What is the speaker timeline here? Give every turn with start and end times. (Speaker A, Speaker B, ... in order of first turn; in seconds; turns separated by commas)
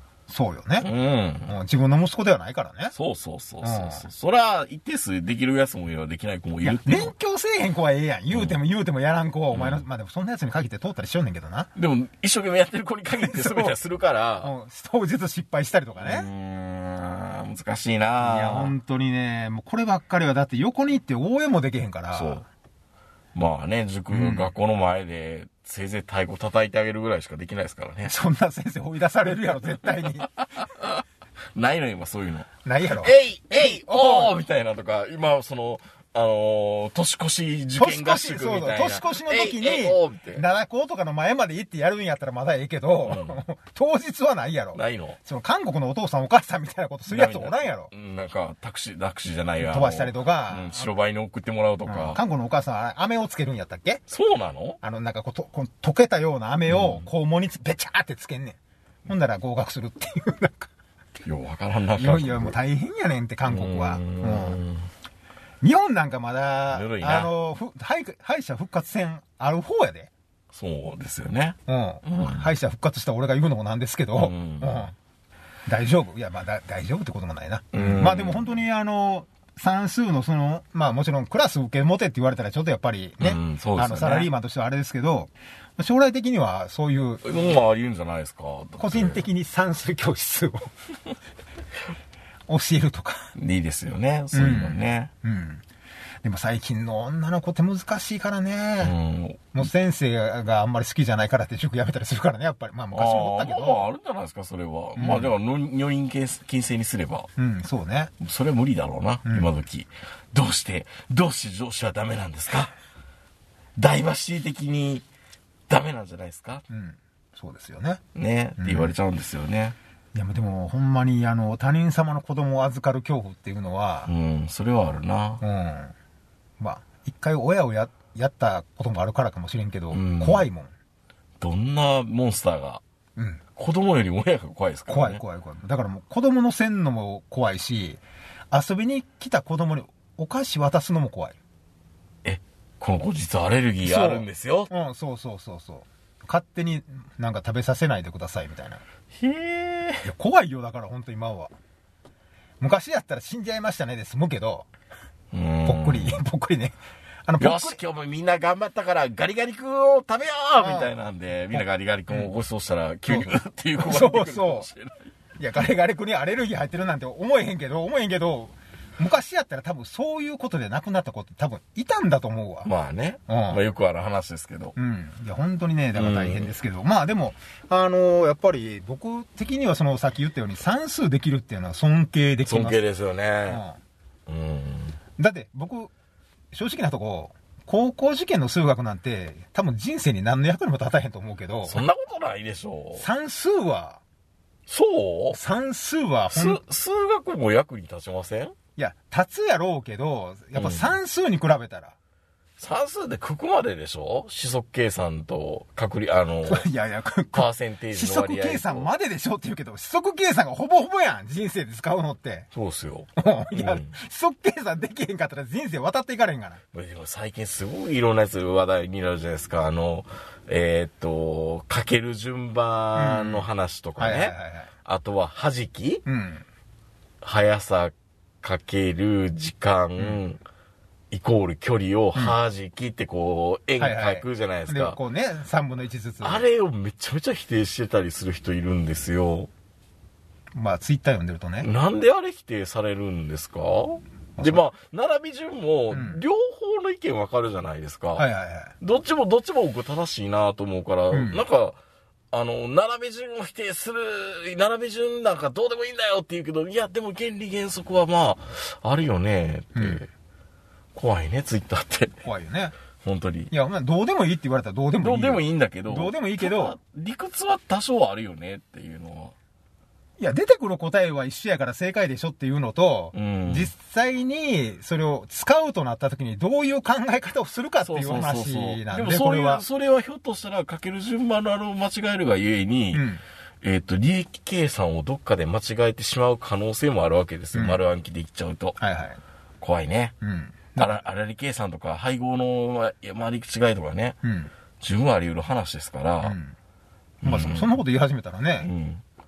Speaker A: 0.3-0.9, Speaker B: 0.8-1.5, Speaker A: 1.4-2.9, Speaker B: 2.9-7.1, Speaker A: 3.6-4.0, Speaker A: 6.6-11.7, Speaker B: 8.3-8.6, Speaker B: 9.5-9.8, Speaker B: 11.7-14.5, Speaker A: 13.2-13.8, Speaker A: 14.4-16.3, Speaker B: 16.0-18.7, Speaker A: 18.2-22.4, Speaker B: 22.1-22.4, Speaker B: 23.3-28.1, Speaker A: 24.1-24.5, Speaker A: 28.0-30.3, Speaker B: 30.0-40.4, Speaker A: 32.6-34.4, Speaker A: 37.7-47.9, Speaker B: 43.0-43.4, Speaker B: 44.7-45.2, Speaker B: 47.1-52.2, Speaker A: 49.6-50.9, Speaker A: 51.9-54.0, Speaker B: 54.1-54.8, Speaker A: 54.8-60.7, Speaker B: 56.7-57.1, Speaker B: 61.2-62.5, Speaker A: 62.0-64.6, Speaker B: 63.5-64.9, Speaker A: 65.6-70.1, Speaker B: 66.7-67.3, Speaker B: 70.5-72.5, Speaker A: 71.7-74.9, Speaker B: 74.1-74.9, Speaker A: 75.7-87.4, Speaker B: 77.7-78.5, Speaker B: 83.2-84.3, Speaker B: 87.2-89.2, Speaker A: 88.8-90.7, Speaker A: 92.5-93.3, Speaker B: 93.3-95.1, Speaker A: 94.3-95.6, Speaker A: 96.2-99.0, Speaker B: 98.8-99.5, Speaker A: 99.5-103.9, Speaker B: 102.9-107.3, Speaker A: 105.0-105.3, Speaker A: 107.3-108.1, Speaker B: 108.2-112.7, Speaker B: 113.8-115.0, Speaker B: 115.7-116.6, Speaker A: 116.7-118.0, Speaker B: 118.1-119.8, Speaker A: 118.6-118.9, Speaker A: 120.1-124.1, Speaker B: 124.0-125.4, Speaker A: 125.4-125.9, Speaker A: 126.6-130.7, Speaker B: 129.9-130.4, Speaker B: 131.4-132.8, Speaker A: 133.2-133.4, Speaker B: 133.6-135.2, Speaker A: 134.9-141.3, Speaker B: 142.2-144.7, Speaker A: 143.8-148.8, Speaker B: 149.1-150.1, Speaker A: 150.0-151.5, Speaker A: 152.6-154.7, Speaker B: 155.3-156.2, Speaker A: 155.6-157.8, Speaker B: 157.4-165.1, Speaker A: 160.6-160.9, Speaker A: 161.5-162.3, Speaker A: 163.1-164.7, Speaker A: 165.4-172.7, Speaker B: 172.6-174.7, Speaker A: 173.3-173.6, Speaker A: 174.8-182.8, Speaker B: 175.9-176.5, Speaker B: 182.4-183.6, Speaker A: 183.4-183.8, Speaker B: 184.3-185.0, Speaker A: 185.2-185.9, Speaker A: 186.5-191.8, Speaker B: 191.6-193.0, Speaker A: 193.0-194.0, Speaker B: 194.7-195.4, Speaker A: 195.3-196.6, Speaker B: 196.3-198.6, Speaker A: 198.8-201.9, Speaker B: 200.5-201.0, Speaker B: 202.6-206.7, Speaker A: 206.4-212.5, Speaker B: 207.3-208.9, Speaker B: 212.5-213.9, Speaker A: 213.2-216.6, Speaker B: 216.7-226.0, Speaker A: 222.9-224.7, Speaker A: 226.1-226.4, Speaker B: 227.2-230.4, Speaker B: 231.1-235.0, Speaker A: 233.8-236.4, Speaker B: 236.2-239.5, Speaker A: 240.5-241.7, Speaker B: 241.6-248.2, Speaker A: 244.4-244.6, Speaker A: 245.9-246.2, Speaker A: 248.2-248.7, Speaker B: 248.8-251.8, Speaker A: 251.1-251.4, Speaker B: 252.3-260.1, Speaker A: 259.7-260.0, Speaker B: 260.9-262.1, Speaker A: 262.2-262.7, Speaker B: 263.0-263.5, Speaker A: 263.5-266.8, Speaker B: 265.0-269.3, Speaker A: 270.2-279.6, Speaker B: 273.1-273.7, Speaker B: 277.8-283.1, Speaker A: 282.9-283.2, Speaker B: 283.6-288.8, Speaker A: 287.5-287.8, Speaker A: 288.8-289.2, Speaker B: 289.6-290.1, Speaker A: 290.2-291.0, Speaker B: 290.8-294.2, Speaker A: 294.2-294.5, Speaker B: 294.8-296.4, Speaker A: 296.2-296.5, Speaker B: 297.2-297.8, Speaker A: 297.2-298.7, Speaker B: 298.6-299.0